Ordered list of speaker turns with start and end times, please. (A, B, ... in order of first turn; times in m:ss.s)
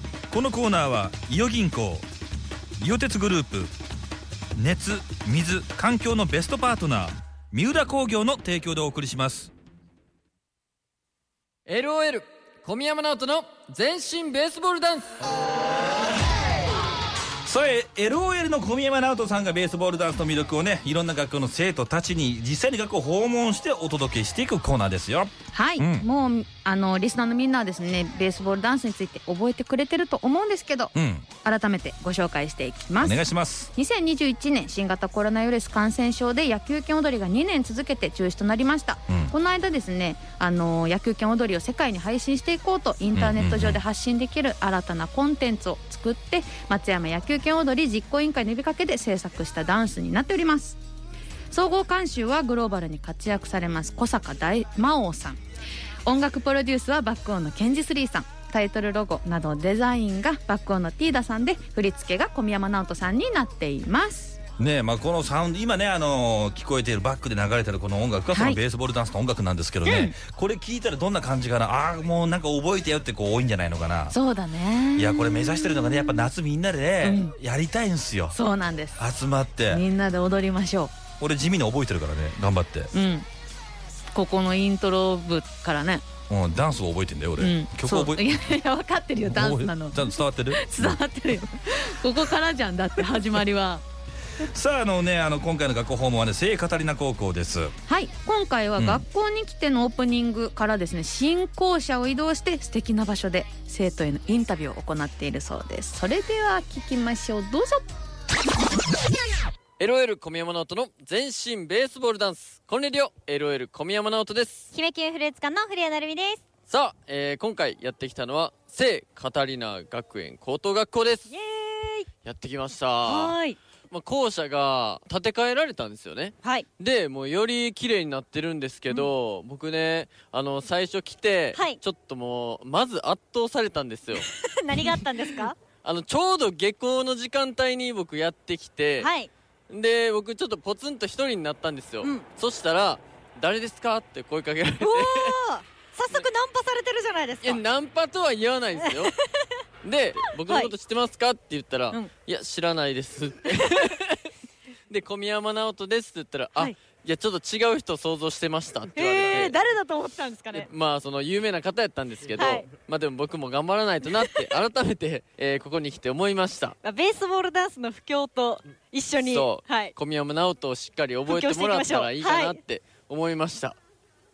0:00.3-0:02.1 A
0:02.8-0:03.7 A
0:04.6-0:09.5 A
0:11.7-0:15.1 B
0:17.4-0:26.1 A
0:25.5-0:30.9 C
0:30.9-0:31.2 A
0:31.4-0:33.2 C
0:33.0-0:33.7 A
0:33.7-0:50.8 C
0:39.1-0:39.3 A
0:43.1-0:43.8 A
0:51.5-0:55.4 C
0:56.0-1:04.4 C
1:04.6-1:14.2 A
1:08.3-1:08.6 C
1:09.8-1:10.1 C
1:14.1-1:15.7 C
1:15.0-1:18.4 A
1:17.0-1:17.3 C
1:18.3-1:19.0 C
1:19.0-1:19.8 A
1:19.7-1:20.9 C
1:21.2-1:22.9 A
1:22.9-1:23.2 C
1:24.1-1:26.0 C
1:26.3-1:28.3 A
1:27.4-1:33.8 C
1:29.2-1:31.0 A
1:34.4-1:37.7 A
1:37.8-1:47.8 C
1:38.8-1:39.0 A
1:49.8-1:54.7 B
1:54.7-1:56.4 D
1:56.7-2:01.3 B
2:01.3-2:02.1 D
2:02.2-2:03.4 B
2:03.0-2:03.6 D
2:03.9-2:14.3 B
2:14.4-2:15.6 D
2:15.8-2:19.1 B
2:19.0-2:19.3 D
2:19.7-2:25.4 B
2:24.8-2:27.6 D
2:27.4-2:29.1 B
2:29.8-2:34.3 B
2:30.4-2:30.7 D
2:34.9-2:39.6 B
2:38.9-2:40.7 D
2:40.5-2:46.8 B
2:42.3-2:42.7 D
2:46.8-2:49.9 D
2:49.1-2:53.8 B
2:51.3-2:52.6 D